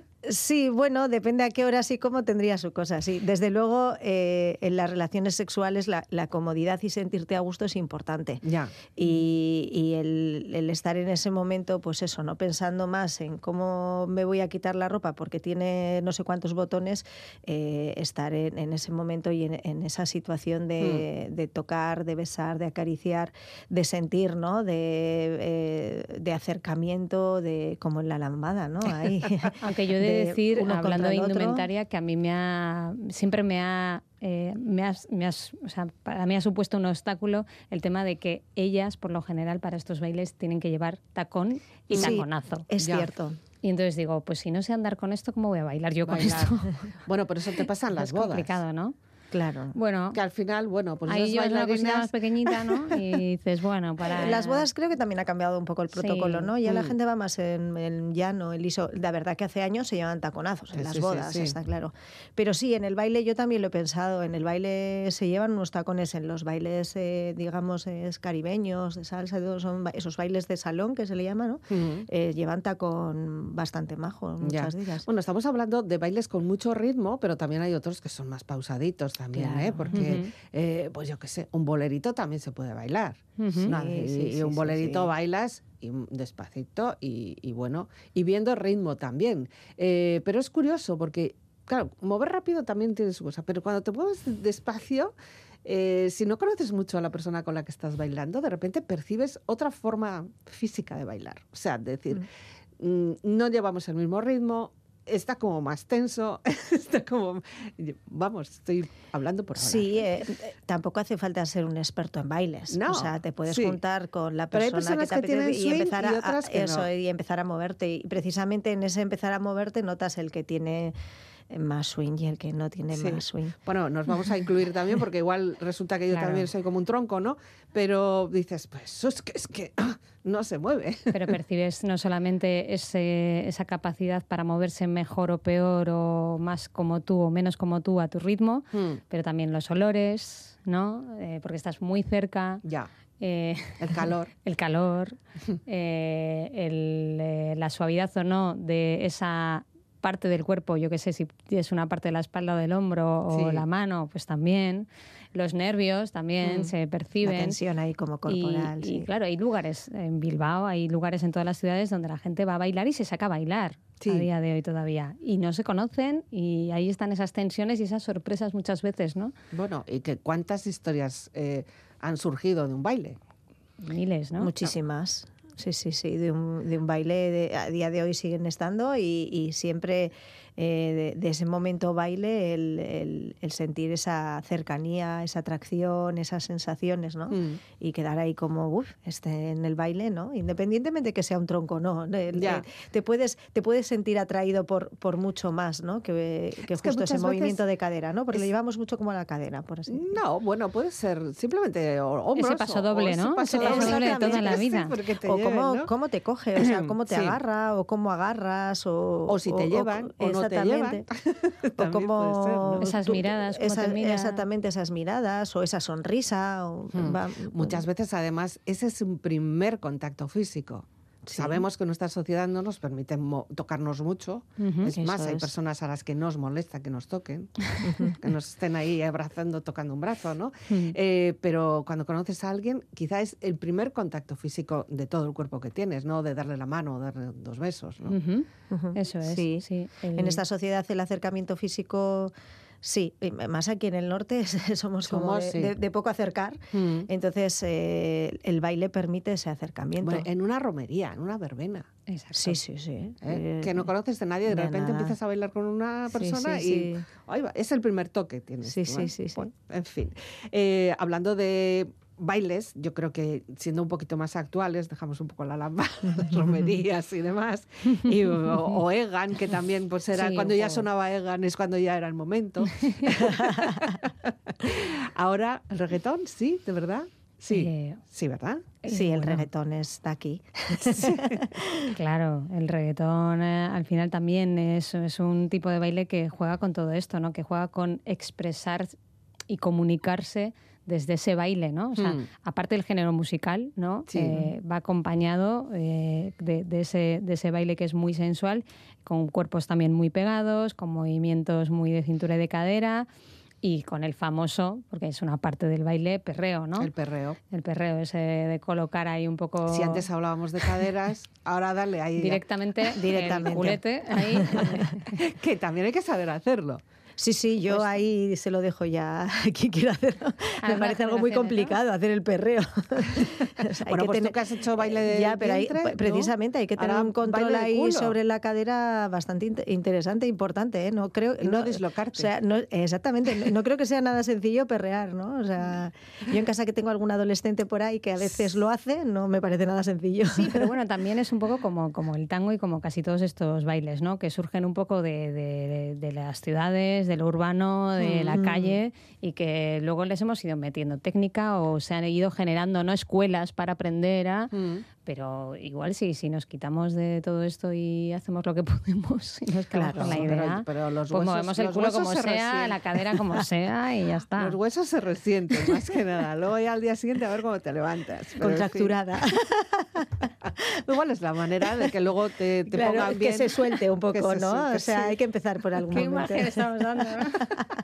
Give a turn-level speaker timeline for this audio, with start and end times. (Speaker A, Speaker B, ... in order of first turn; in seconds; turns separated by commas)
Speaker A: 0.2-31.6, Speaker B: 8.4-8.9, Speaker B: 29.1-29.5, Speaker C: 29.6-42.7, Speaker A: 41.9-43.4, Speaker B: 42.8-43.1, Speaker C: 43.6-46.7, Speaker B: 46.0-48.6, Speaker C: 47.9-48.9, Speaker A: 49.3-49.8, Speaker C: 49.7-50.2, Speaker B: 50.1-52.9, Speaker C: 51.0-54.7, Speaker A: 54.0-75.1, Speaker C: 55.9-56.5, Speaker B: 56.6-56.9, Speaker B: 60.8-61.5, Speaker B: 71.7-72.1, Speaker B: 74.4-95.1, Speaker A: 79.3-80.2, Speaker C: 79.9-80.3, Speaker C: 83.4-83.7, Speaker A: 83.6-85.1, Speaker B: 95.6-102.3, Speaker B: 102.8-110.0, Speaker A: 109.5-121.0, Speaker B: 112.7-113.8, Speaker B: 114.5-116.9, Speaker A: 121.5-123.5, Speaker B: 122.9-131.2, Speaker C: 126.1-126.5, Speaker C: 131.1-142.6, Speaker B: 138.7-139.0, Speaker B: 142.6-142.9, Speaker C: 143.2-157.6, Speaker B: 143.8-144.3, Speaker B: 153.3-153.6, Speaker B: 156.4-156.7, Speaker A: 157.2-159.1, Speaker C: 158.2-169.3, Speaker B: 164.0-164.3, Speaker B: 169.5-173.2, Speaker C: 173.8-174.5, Speaker A: 174.4-200.2, Speaker B: 187.3-187.6, Speaker B: 192.3-192.7, Speaker B: 196.7-197.6, Speaker B: 199.9-205.9, Speaker C: 202.3-204.9, Speaker A: 203.6-204.7, Speaker A: 205.2-211.0, Speaker B: 206.6-207.4, Speaker B: 209.3-212.9, Speaker A: 211.8-217.8, Speaker C: 212.8-214.4, Speaker B: 216.9-238.2, Speaker A: 221.2-221.7, Speaker C: 224.6-224.9, Speaker A: 225.0-225.5, Speaker A: 227.8-228.1, Speaker C: 238.1-240.4, Speaker A: 238.7-250.2, Speaker B: 245.1-245.7, Speaker B: 246.7-247.1, Speaker B: 250.0-251.9, Speaker C: 252.1-252.6, Speaker A: 252.3-253.9, Speaker B: 253.2-278.7, Speaker A: 254.4-255.1, Speaker A: 256.1-257.1, Speaker A: 258.6-259.5, Speaker C: 270.1-270.9, Speaker A: 273.2-273.9, Speaker C: 277.5-278.0, Speaker C: 278.8-279.4, Speaker A: 278.9-281.9, Speaker B: 280.8-281.4, Speaker C: 281.9-288.9, Speaker C: 289.5-303.1, Speaker B: 292.0-292.3, Speaker B: 294.1-294.5, Speaker C: 303.6-306.9, Speaker B: 306.8-307.4, Speaker C: 307.5-310.0, Speaker B: 309.7-312.4, Speaker C: 312.2-315.1, Speaker A: 312.9-314.8, Speaker B: 314.6-316.8, Speaker A: 317.2-340.7, Speaker C: 320.6-321.8, Speaker B: 323.8-328.1, Speaker B: 331.4-332.3, Speaker C: 340.3-354.5, Speaker B: 348.0-348.4, Speaker A: 348.1-348.8, Speaker B: 354.5-354.9, Speaker C: 355.0-364.6, Speaker A: 359.7-360.3, Speaker B: 359.9-362.8, Speaker B: 364.4-368.9, Speaker A: 368.4-370.2, Speaker B: 370.8-373.5, Speaker A: 372.7-377.6, Speaker B: 374.1-375.1, Speaker C: 375.9-377.4